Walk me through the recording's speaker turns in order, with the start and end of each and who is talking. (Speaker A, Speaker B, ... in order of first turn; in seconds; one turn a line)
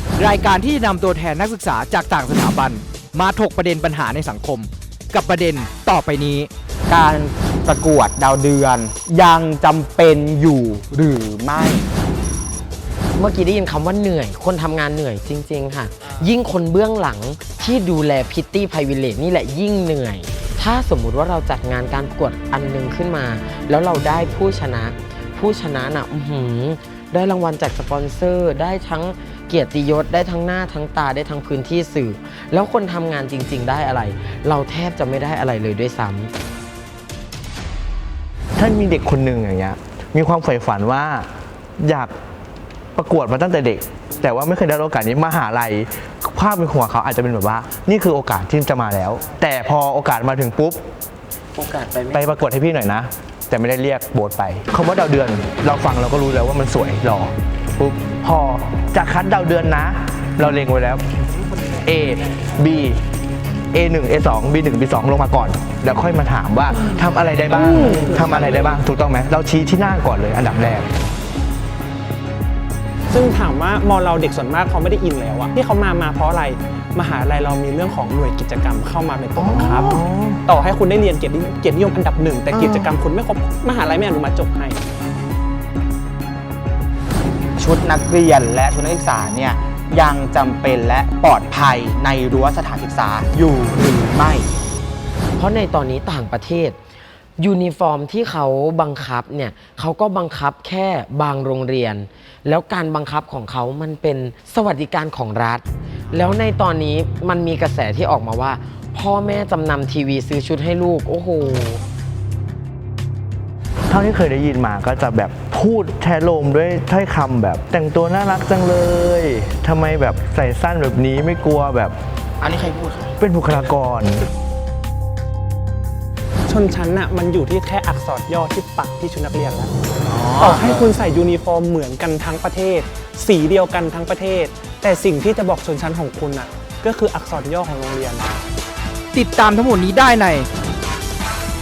Speaker A: 0.2-6.5
Speaker B: 6.9-11.9
Speaker C: 13.2-36.3
Speaker D: 38.6-41.3
Speaker D: 41.8-42.1
Speaker D: 43.0-50.8
Speaker C: 51.6-51.8
Speaker D: 52.1-61.0
Speaker D: 61.8-63.0
Speaker D: 63.7-70.9
Speaker E: 73.1-84.8
Speaker D: 79.4-80.4
Speaker B: 87.6-94.5
Speaker C: 95.4-96.8
Speaker C: 97.4-111.8
Speaker D: 113.9-122.0
Speaker B: 122.4-123.1
Speaker D: 123.2-124.2
Speaker E: 126.5-129.7
Speaker B: 130.1-130.9
Speaker E: 130.4-138.4
Speaker A: 139.1-140.5